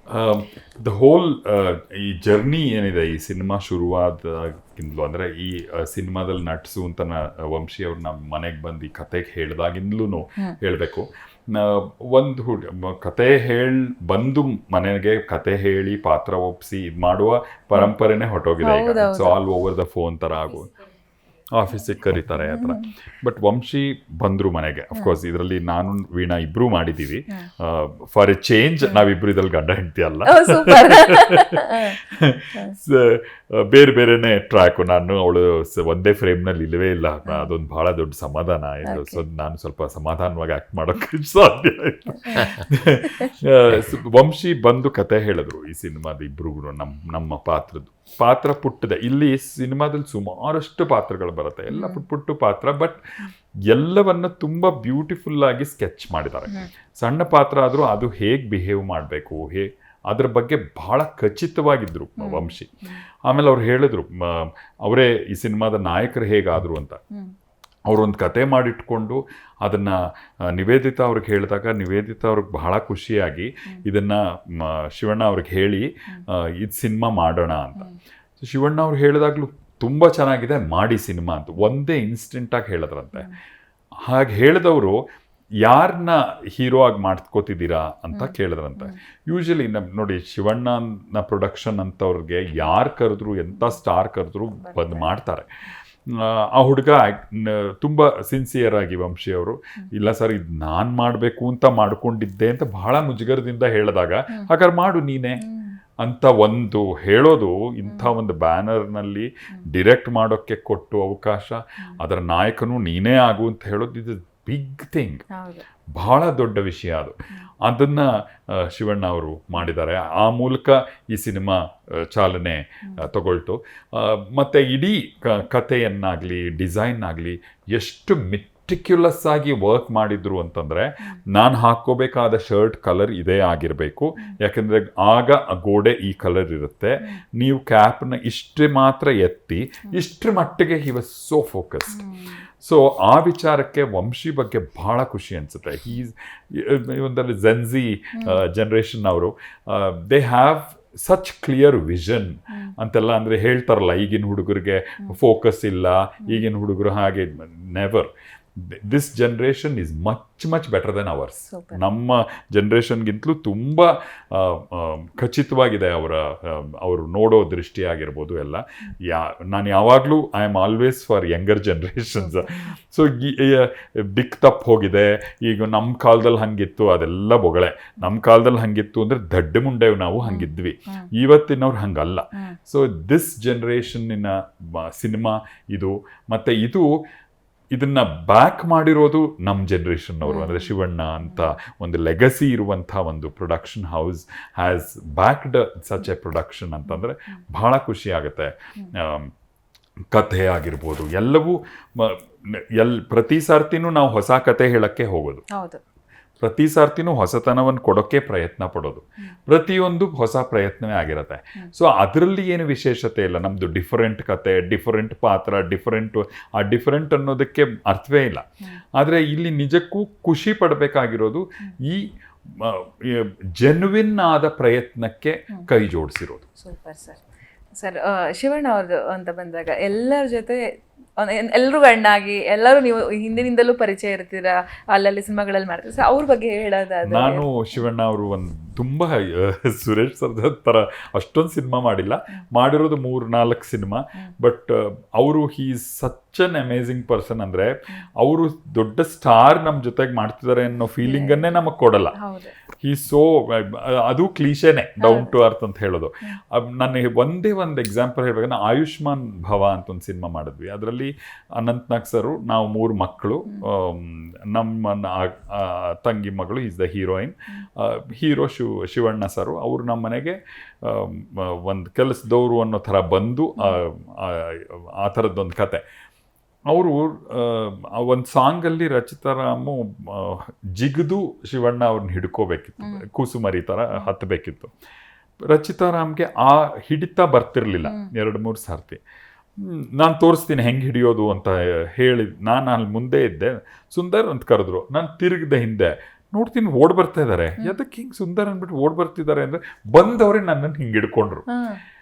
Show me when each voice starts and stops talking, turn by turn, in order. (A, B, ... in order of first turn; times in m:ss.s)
0:00.1-0:20.7 A
0:18.6-0:19.4 B
0:21.5-0:53.0 A
0:22.4-0:22.9 B
0:30.3-0:32.0 B
0:37.3-0:37.5 B
0:38.8-0:39.2 B
0:42.1-0:42.5 B
0:51.7-0:52.0 B
0:53.7-1:02.7 A
1:02.2-1:02.5 B
1:03.3-1:07.0 A
1:07.9-1:17.9 A
1:18.4-1:23.3 A
1:24.0-1:25.0 A
1:25.6-1:35.5 A
1:28.1-1:29.0 B
1:34.6-1:35.1 B
1:36.1-1:45.4 A
1:45.4-1:45.8 B
1:46.0-1:55.3 A
1:47.9-1:48.2 B
1:55.3-1:55.6 B
1:56.0-2:22.0 A
2:21.9-2:22.4 B
2:22.6-3:06.9 A
2:28.2-2:28.4 B
2:41.5-2:41.8 B
2:52.2-2:52.7 B
3:00.2-3:01.1 B
3:07.7-3:19.3 A
3:10.2-3:10.7 B
3:11.2-3:11.5 B
3:16.9-3:17.4 B
3:20.1-3:25.4 A
3:25.5-3:25.8 B
3:26.4-3:38.4 A
3:39.0-3:46.5 A
3:46.6-3:47.2 B
3:47.8-3:50.6 B
3:51.2-3:57.5 B
3:57.0-4:12.2 A
4:11.0-4:11.5 B
4:12.2-4:12.5 B
4:12.8-4:35.8 A
4:15.0-4:15.3 B
4:36.7-4:44.7 A
4:42.8-4:43.0 B
4:45.4-4:49.0 A
4:47.8-4:48.1 B
4:49.6-5:01.5 A
5:01.5-5:01.8 B